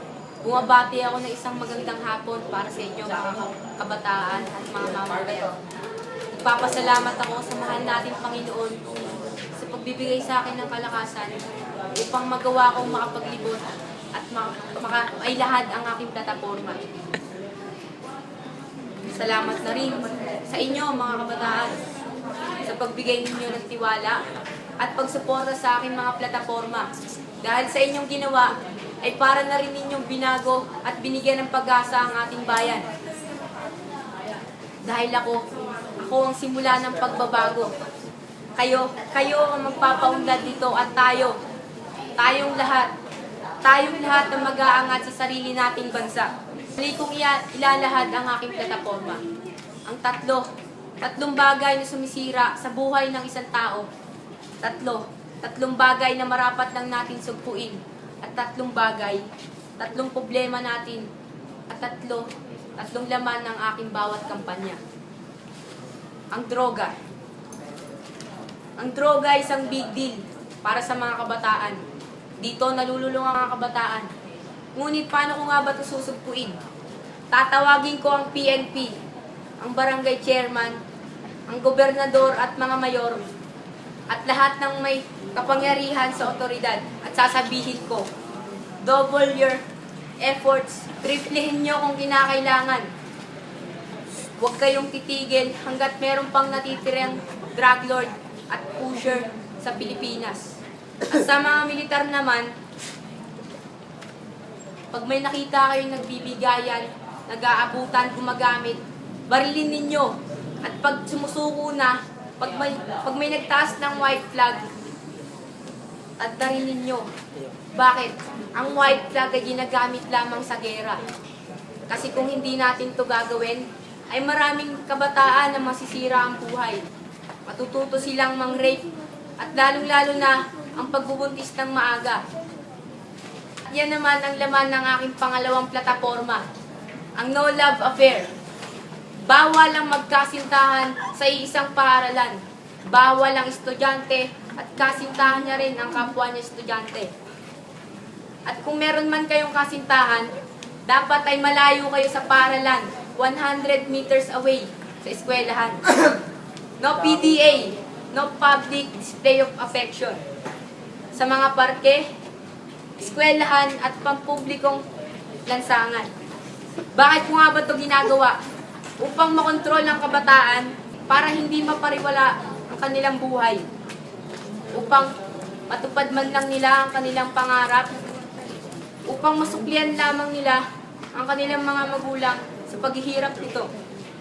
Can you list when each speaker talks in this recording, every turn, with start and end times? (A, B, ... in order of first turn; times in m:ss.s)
0:00.4-0:05.6 A
0:06.3-0:08.8 A
0:09.6-0:11.4 A
0:11.9-0:16.8 A
0:19.1-0:21.8 A
0:22.6-0:24.2 A
0:24.8-0:26.9 A
0:27.4-0:32.9 A
0:34.8-0:35.4 A
0:36.0-0:37.7 A
0:38.6-0:41.4 A
0:42.2-0:42.9 A
0:43.6-0:49.2 A
0:49.9-0:50.5 A
0:51.0-0:53.9 A
0:54.6-0:59.2 A
0:59.8-1:01.1 A
1:01.7-1:04.8 A
1:06.3-1:07.0 A
1:08.8-1:11.8 A
1:12.4-1:14.1 A
1:14.8-1:16.6 A
1:17.3-1:19.0 A
1:19.6-1:20.8 A
1:21.5-1:23.3 A
1:24.1-1:28.1 A
1:28.8-1:29.6 A
1:30.2-1:32.9 A
1:34.4-1:42.5 A
1:44.9-1:54.7 A
1:56.2-1:57.1 A
1:57.7-2:01.0 A
2:01.9-2:06.8 A
2:07.5-2:08.9 A
2:09.4-2:12.2 A
2:13.7-2:16.5 A
2:17.2-2:18.3 A
2:19.2-2:27.1 A
2:28.5-2:30.3 A
2:30.9-2:36.2 A
2:36.8-2:40.2 A
2:41.2-2:42.1 A
2:43.0-2:44.8 A
2:45.5-2:46.1 A
2:46.9-2:48.4 A
2:49.0-2:53.6 A
2:54.7-2:55.1 A
2:55.7-2:57.9 A
2:59.1-3:00.6 A
3:01.1-3:03.7 A